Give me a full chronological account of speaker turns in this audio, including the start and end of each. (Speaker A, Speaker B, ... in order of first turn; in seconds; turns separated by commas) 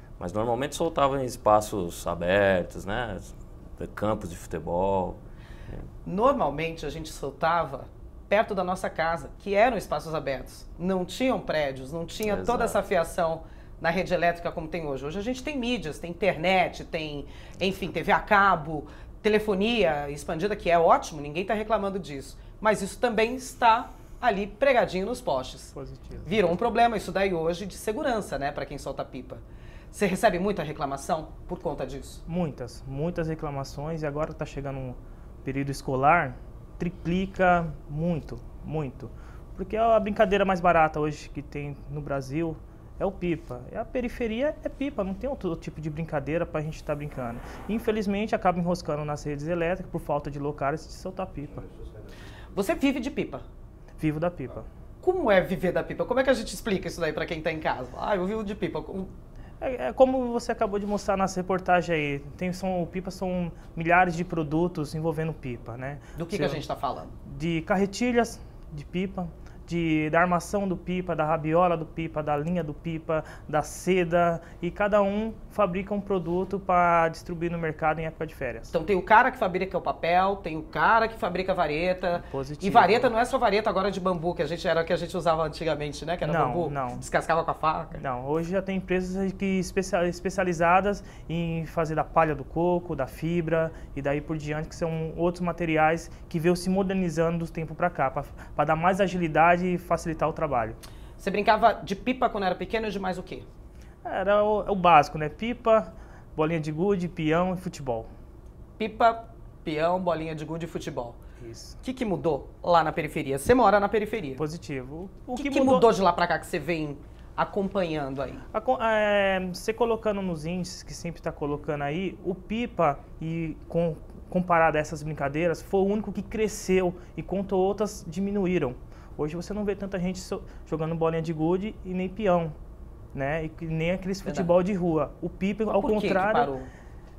Speaker A: 0.2-5.9, Speaker B: 6.0-25.7, Speaker A: 12.2-12.8, Speaker C: 25.7-26.5, Speaker B: 26.2-32.2, Speaker C: 32.3-51.6, Speaker B: 52.5-53.4, Speaker C: 54.0-54.7, Speaker B: 55.0-59.1, Speaker C: 59.6-66.6, Speaker B: 66.2-67.1, Speaker C: 67.2-78.7, Speaker B: 78.7-88.0, Speaker C: 82.2-83.1, Speaker C: 86.2-87.0, Speaker C: 88.0-100.8, Speaker B: 101.2-103.5, Speaker C: 104.0-108.1, Speaker B: 108.8-111.2, Speaker C: 111.4-111.8, Speaker B: 111.8-114.4, Speaker C: 114.4-115.9, Speaker B: 115.3-118.4, Speaker C: 118.5-132.5, Speaker C: 133.1-136.5, Speaker B: 134.2-134.5, Speaker B: 135.7-136.7